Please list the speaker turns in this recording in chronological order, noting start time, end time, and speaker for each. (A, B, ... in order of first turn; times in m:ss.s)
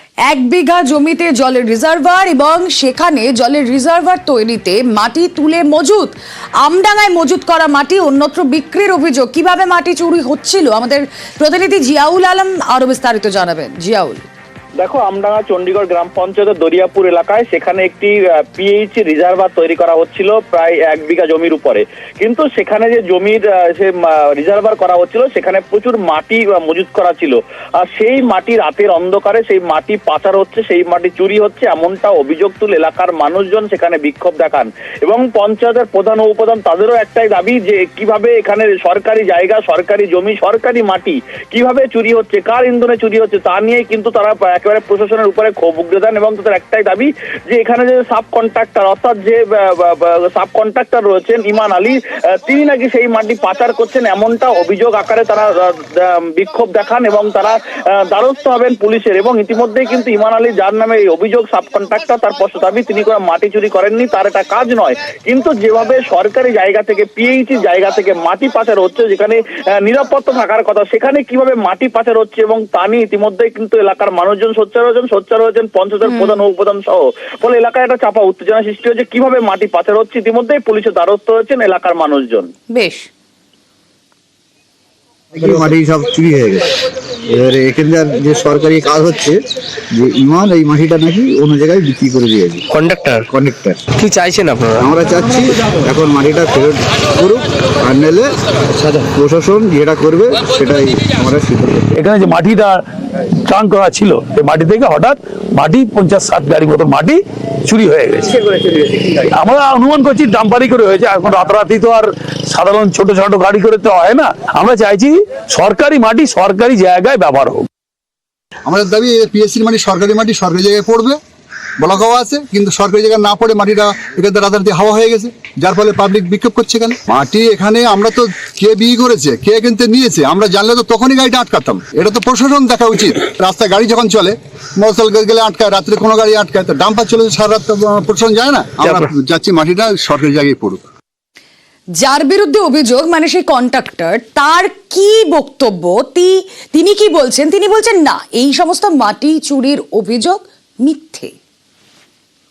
0:00.3-0:14.2 A
0:14.8-1:22.5 B
1:16.0-1:16.4 A
1:22.7-1:23.1 A
1:25.4-1:26.6 C
1:27.3-1:29.4 C
1:30.0-1:33.8 C
1:34.7-1:42.0 C
1:42.0-1:42.8 D
1:43.5-1:48.3 D
1:48.3-1:49.2 B
1:49.3-1:57.7 D
1:58.7-2:01.2 E
2:01.8-2:20.8 E
2:18.8-2:19.1 D
2:22.0-2:31.4 A